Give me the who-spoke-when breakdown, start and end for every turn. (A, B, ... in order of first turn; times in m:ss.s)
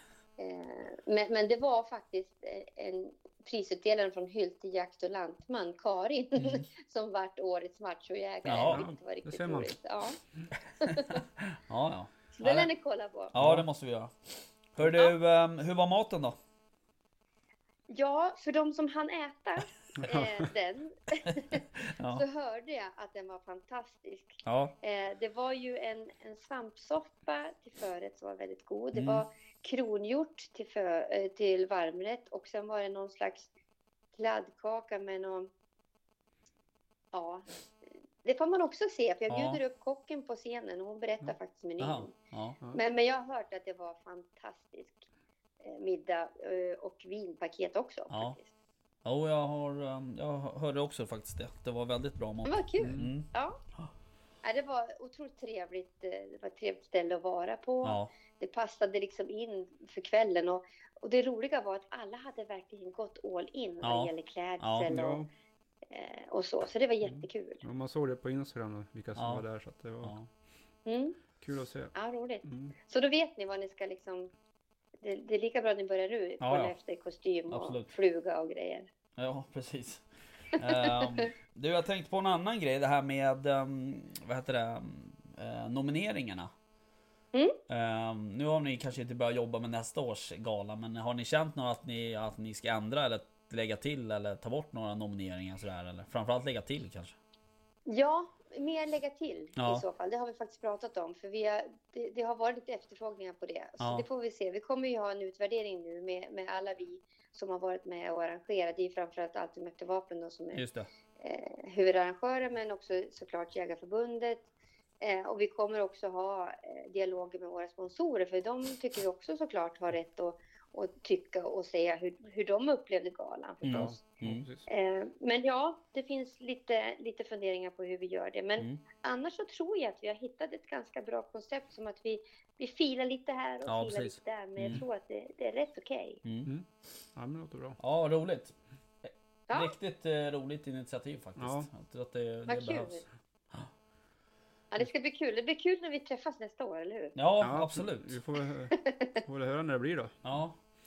0:00.4-0:10.2 A
0:06.4-0:06.6 B
0:08.4-0:08.8 B
0:08.6-0:09.8 C
0:10.8-0:11.2 A
0:11.4-0:12.7 B
0:12.3-0:13.3 A
0:13.3-0:16.4 B
0:13.4-0:13.6 C
0:14.8-0:15.1 A
0:17.9-0:33.5 A
0:20.0-0:20.4 C
0:21.3-0:22.2 B
0:24.4-0:24.7 B
0:28.9-0:29.2 B
0:34.1-0:35.5 A
0:37.1-0:37.5 A
0:38.2-0:42.1 A
0:39.3-0:39.6 B
0:41.8-0:42.6 B
0:42.7-0:45.1 A
0:45.6-0:48.5 A
0:48.1-0:48.4 B
0:49.0-0:53.9 B
0:52.4-0:53.6 A
0:52.8-0:53.1 C
0:54.4-1:05.2 A
0:57.8-0:58.1 B
1:03.8-1:04.9 B
1:04.9-1:05.3 C
1:05.9-1:07.6 A
1:07.0-1:10.1 C
1:09.2-1:09.4 B
1:10.0-1:10.3 B
1:10.8-1:11.2 A
1:11.4-1:11.9 C
1:11.9-1:14.3 A
1:12.4-1:12.7 C
1:15.0-1:18.9 A
1:16.4-1:16.7 B
1:17.5-1:17.9 B
1:19.2-1:26.5 B
1:20.6-1:21.3 A
1:27.7-1:37.2 B
1:37.9-1:50.6 A
1:39.6-1:39.8 B
1:43.8-1:44.0 B
1:50.5-1:50.9 B
1:51.2-1:54.4 A
1:55.0-2:04.0 A
2:03.6-2:04.4 B
2:03.7-2:04.6 C
2:04.6-2:16.2 A
2:13.6-2:14.8 B
2:16.2-2:16.5 B
2:16.4-2:17.8 C
2:17.8-2:23.0 B
2:19.5-2:19.7 A
2:21.4-2:21.7 C
2:22.5-2:23.0 A
2:24.7-2:27.1 A
2:27.2-2:28.2 B
2:27.4-2:30.2 C
2:28.7-2:29.2 A
2:30.2-2:30.6 B